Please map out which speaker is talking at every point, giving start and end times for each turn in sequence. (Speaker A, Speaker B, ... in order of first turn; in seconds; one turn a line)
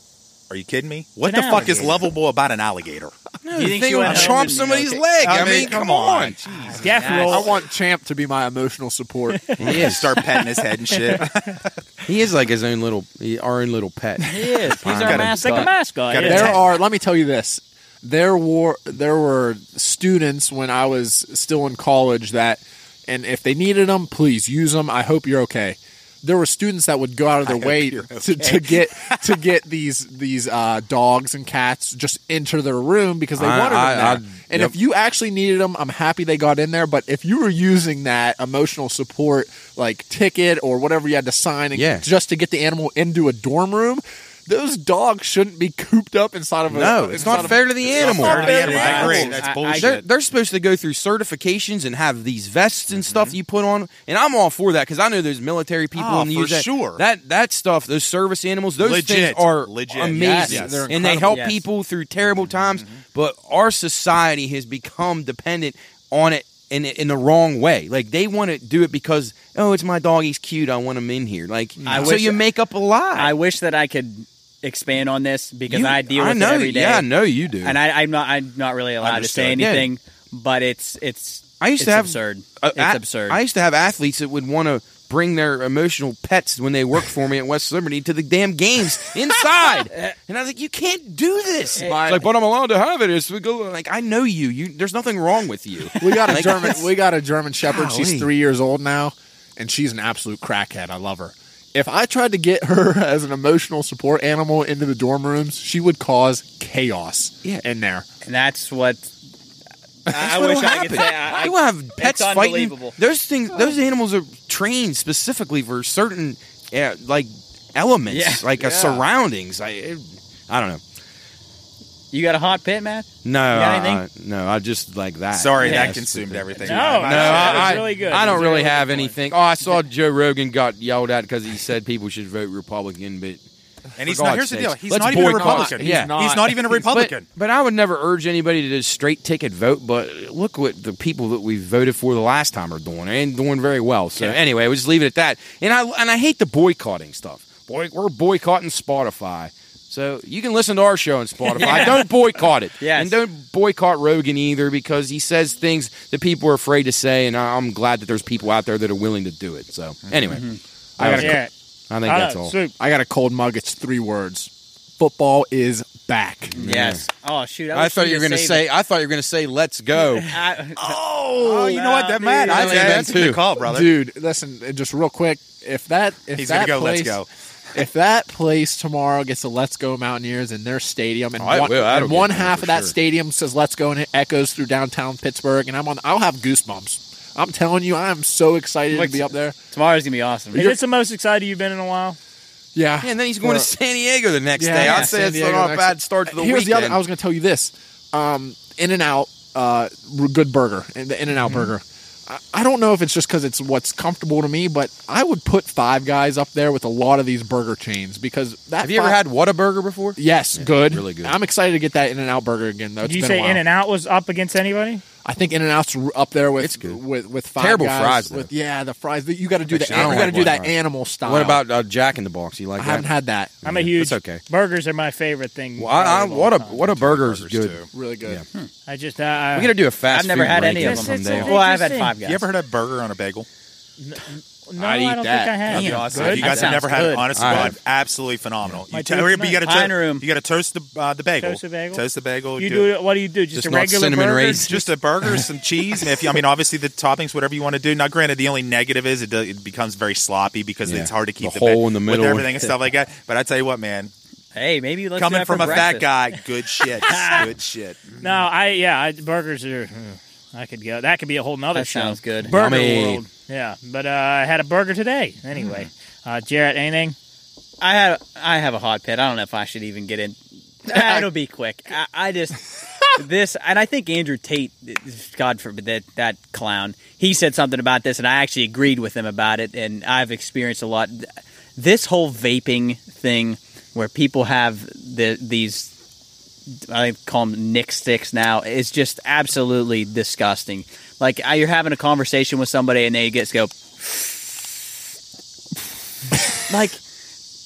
Speaker A: 0.5-3.1
Speaker B: 1.2-1.9
Speaker C: 3.4-6.4
Speaker D: 3.5-5.5
Speaker A: 4.0-4.4
Speaker A: 5.2-7.4
Speaker B: 6.8-7.5
Speaker D: 6.8-7.4
Speaker E: 7.0-9.7
Speaker B: 9.3-9.7
Speaker A: 9.6-11.7
Speaker C: 9.6-10.1
Speaker B: 10.9-11.2
Speaker C: 12.1-15.7
Speaker D: 14.2-15.7
Speaker B: 15.2-16.6
Speaker A: 16.1-16.6
Speaker E: 16.2-48.5
Speaker A: 27.4-29.3
Speaker C: 33.4-34.7
Speaker C: 41.7-42.0
Speaker C: 46.7-73.3
Speaker A: 47.2-50.1
Speaker D: 48.2-50.0
Speaker B: 48.7-49.0
Speaker A: 52.9-53.4
Speaker A: 55.9-57.0
Speaker A: 58.8-60.9
Speaker E: 60.2-61.4
Speaker D: 60.2-60.6
Speaker D: 61.3-61.6
Speaker A: 62.5-63.0
Speaker E: 71.8-72.2
Speaker D: 71.8-72.4
Speaker D: 73.1-77.1
Speaker C: 75.7-77.8
Speaker D: 77.6-83.4
Speaker C: 79.0-79.9
Speaker C: 81.6-96.9
Speaker D: 91.8-92.2
Speaker E: 91.8-92.3
Speaker E: 96.0-108.0
Speaker C: 97.7-98.3
Speaker D: 108.2-109.1
Speaker D: 110.1-113.0
Speaker C: 110.1-120.8
Speaker D: 118.1-118.5
Speaker E: 118.6-119.0
Speaker D: 122.1-124.0
Speaker C: 123.2-133.4
Speaker A: 125.3-127.9
Speaker D: 125.6-126.0
Speaker B: 126.6-129.1
Speaker A: 134.0-137.3
Speaker C: 134.0-160.5
Speaker E: 135.1-136.9
Speaker D: 151.5-152.1
Speaker D: 152.8-153.1
Speaker D: 160.3-160.6
Speaker E: 161.0-161.4
Speaker C: 161.0-162.5
Speaker B: 161.2-161.5
Speaker B: 162.0-162.7
Speaker E: 162.8-166.6
Speaker C: 166.6-167.0
Speaker D: 166.6-168.7
Speaker C: 167.7-170.4
Speaker D: 169.9-173.1
Speaker A: 170.9-173.9
Speaker C: 172.5-173.4
Speaker E: 173.6-177.2
Speaker A: 176.3-177.3
Speaker E: 177.7-189.6
Speaker C: 181.4-182.9
Speaker D: 188.9-190.8
Speaker B: 190.5-192.2
Speaker E: 192.7-193.7
Speaker C: 193.0-197.0
Speaker E: 194.6-209.2
Speaker D: 194.8-195.1
Speaker C: 208.8-211.3
Speaker E: 210.2-213.6
Speaker B: 213.0-215.0
Speaker E: 215.2-221.6
Speaker C: 216.6-216.9
Speaker C: 217.6-218.5
Speaker C: 219.7-223.1
Speaker E: 222.8-223.5
Speaker C: 223.6-224.4
Speaker B: 223.6-226.8
Speaker C: 225.8-228.4
Speaker A: 226.8-227.9
Speaker E: 227.9-228.4
Speaker B: 228.9-229.7
Speaker C: 229.5-231.5
Speaker D: 230.1-232.4
Speaker B: 230.5-232.1
Speaker A: 232.2-233.5
Speaker B: 234.0-236.7
Speaker C: 234.8-236.8
Speaker D: 235.7-237.7
Speaker A: 235.7-242.9
Speaker C: 237.3-237.8
Speaker B: 238.9-239.6
Speaker D: 239.6-240.2
Speaker B: 241.4-242.0
Speaker B: 242.6-244.7
Speaker C: 243.5-244.8
Speaker A: 244.7-254.1
Speaker C: 250.8-252.7
Speaker D: 254.5-256.4
Speaker A: 255.2-258.0
Speaker D: 256.9-257.5
Speaker B: 258.2-267.1
Speaker D: 261.7-262.6
Speaker C: 262.5-263.2
Speaker D: 267.8-285.9
Speaker D: 286.8-294.7
Speaker D: 296.7-297.0